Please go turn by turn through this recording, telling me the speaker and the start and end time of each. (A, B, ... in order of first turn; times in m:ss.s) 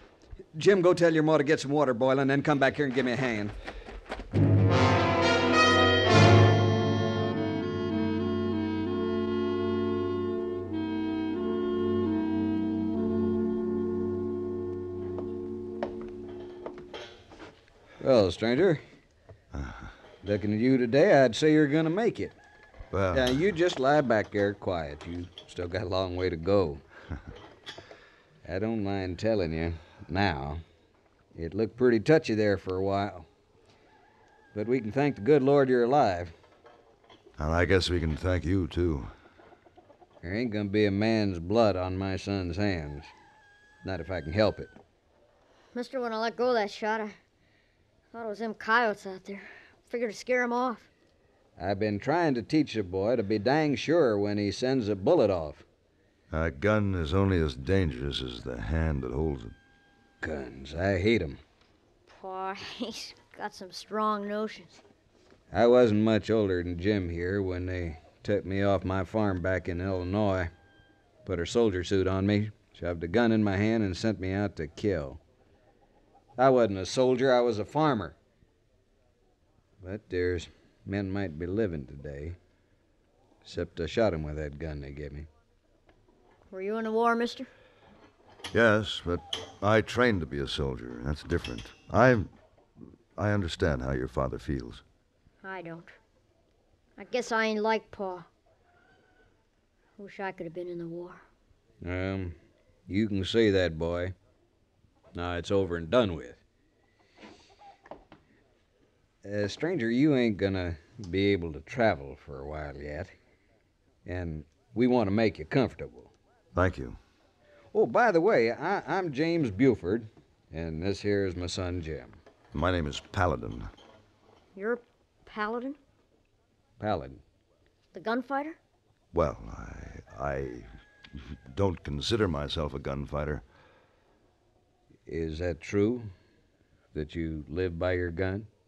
0:00.5-0:03.6 A
0:18.0-0:18.8 A
0:19.5-0:19.9 B
0:20.2-0:22.4 A
0:22.9-0:23.4 B
0:23.1-0:26.8 A
0:28.4-0:30.6 A
0:31.3-0:33.3 A
0:34.5-0:36.3 A
0:37.4-0:39.1 B
0:40.2-0:43.1 A
0:43.8-0:44.7 A
0:45.7-0:47.2 C
0:48.1-0:50.9 C
0:51.6-0:55.6 A
0:56.3-0:59.6 B
1:00.2-1:01.4 A
1:02.1-1:04.8 C
1:05.5-1:10.5 A
1:11.2-1:15.2 A
1:16.4-1:18.2 A
1:19.8-1:22.4 A
1:23.4-1:25.3 A
1:26.5-1:27.5 C
1:28.5-1:32.3 B
1:33.2-1:34.8 B
1:35.4-1:36.0 C
1:37.0-1:38.3 C
1:40.0-1:41.2 C
1:41.8-1:42.4 A
1:42.9-1:44.2 A
1:45.1-1:46.4 A
1:49.2-1:53.1 A
1:54.0-1:56.1 A
1:56.5-1:57.0 B
1:57.7-2:02.2 A
2:02.5-2:03.7 B
2:04.6-2:05.8 C
2:06.8-2:07.2 A
2:07.9-2:08.6 C
2:09.1-2:13.4 B
2:15.1-2:16.1 A
2:16.9-2:18.5 A